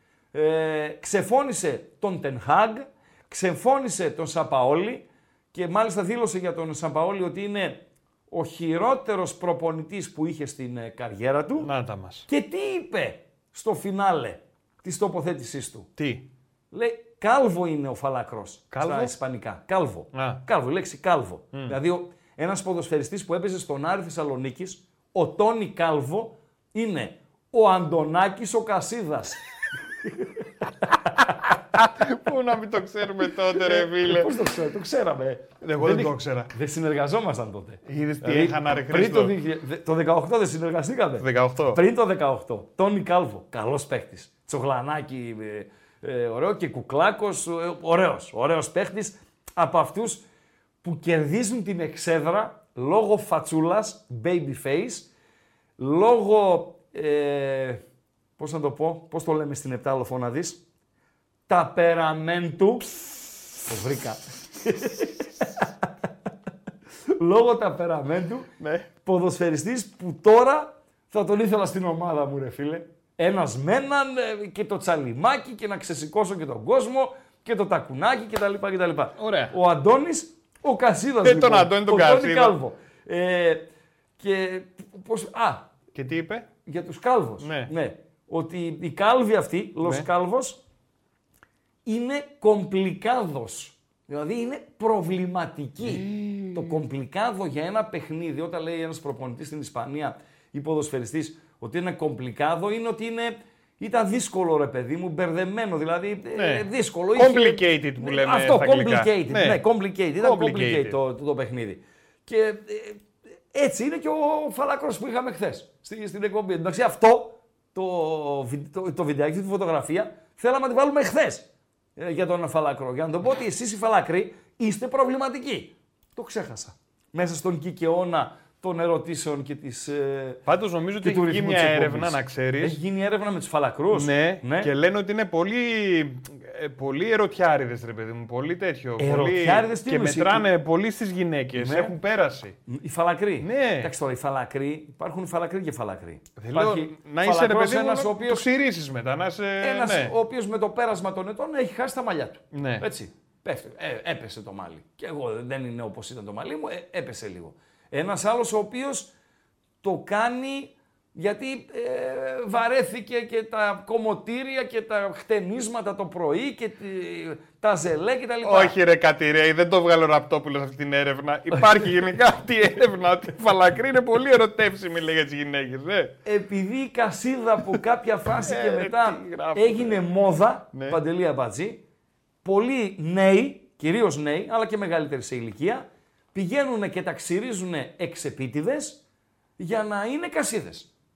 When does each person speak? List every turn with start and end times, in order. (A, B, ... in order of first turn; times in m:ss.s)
0:00.3-0:11.7 A
0:11.6-0:12.3 B
0:12.3-0:15.9 A
0:16.0-0:16.3 B
0:16.7-0:29.4 A
0:18.7-0:19.2 B
0:20.1-0:20.4 B
0:30.8-0:31.4 A
0:31.5-0:34.3 B
0:33.6-0:50.2 A
0:35.6-0:36.5 B
0:37.9-0:39.4 B
0:41.2-0:41.8 B
0:50.8-0:55.1 A
0:55.8-0:57.8 A
0:58.4-1:00.6 A
1:01.5-1:03.0 A
1:03.6-1:05.9 A
1:07.2-1:08.5 A
1:08.6-1:08.9 B
1:09.0-1:23.7 A
1:19.2-1:19.5 B
1:21.2-1:22.6 B
1:24.2-1:25.7 A
1:25.9-1:26.5 B
1:26.7-1:30.6 A
1:27.4-1:27.7 B
1:29.8-1:30.1 B
1:31.9-2:10.4 A
1:35.8-1:36.8 B
1:46.3-1:49.6 B
1:50.2-1:51.0 B
2:10.5-2:12.8 B
2:11.0-2:14.7 A
2:13.9-2:22.6 B
2:19.0-2:20.5 A
2:21.6-2:22.0 A
2:22.7-2:28.4 A
2:23.4-2:23.9 B
2:26.4-2:30.2 B
2:29.6-2:39.1 A
2:32.5-2:32.9 B
2:39.8-2:48.8 A
2:48.4-2:56.2 B
2:56.2-3:01.8 A
2:58.3-3:00.1 B
3:00.7-3:01.0 B
3:02.4-3:09.0 A
3:09.6-3:10.9 A